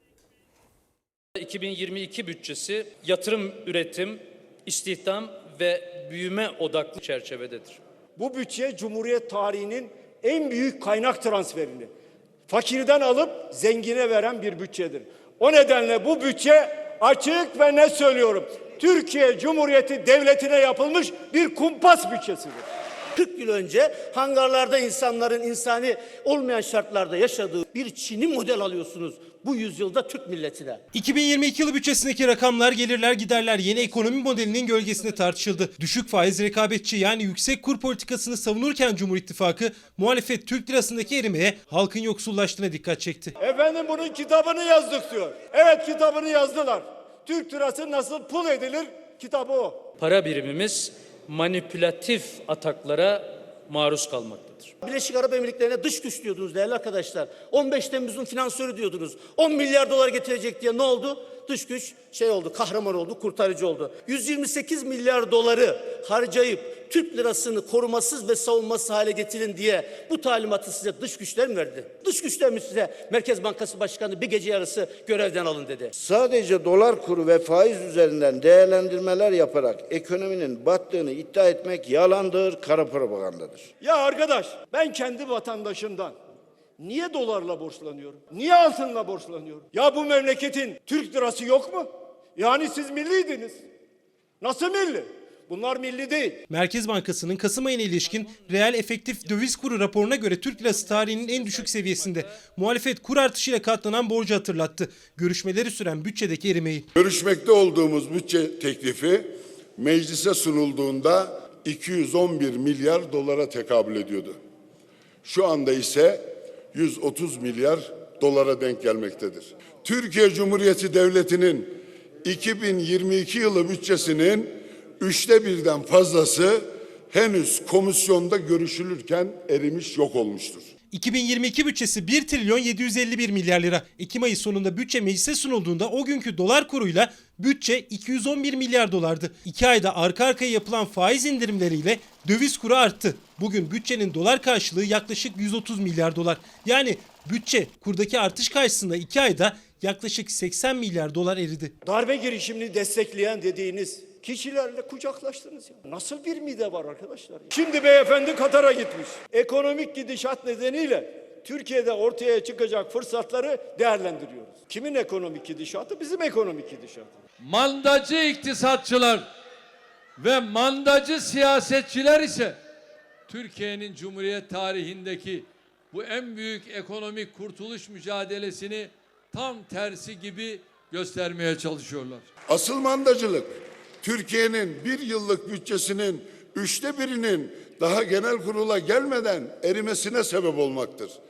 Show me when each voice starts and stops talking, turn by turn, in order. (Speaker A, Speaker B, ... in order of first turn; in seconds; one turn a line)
Speaker A: 1.4-7.8
Speaker B: 8.2-11.9
Speaker B: 12.5-22.6
Speaker C: 23.1-30.8
Speaker D: 30.9-43.3
Speaker B: 43.4-49.9
Speaker A: 50.0-54.7
Speaker C: 54.8-75.9
Speaker E: 76.0-83.7
Speaker B: 83.8-86.2
Speaker B: 86.8-93.6
Speaker B: 94.4-96.4
Speaker D: 96.5-106.8
Speaker A: 98.2-98.6
Speaker A: 100.6-102.4
Speaker F: 106.9-114.3
Speaker F: 115.2-130.7
Speaker D: 130.9-151.7
Speaker B: 151.8-167.2
Speaker G: 167.4-169.3
Speaker G: 170.2-172.6
Speaker G: 173.3-182.3
Speaker F: 182.5-191.2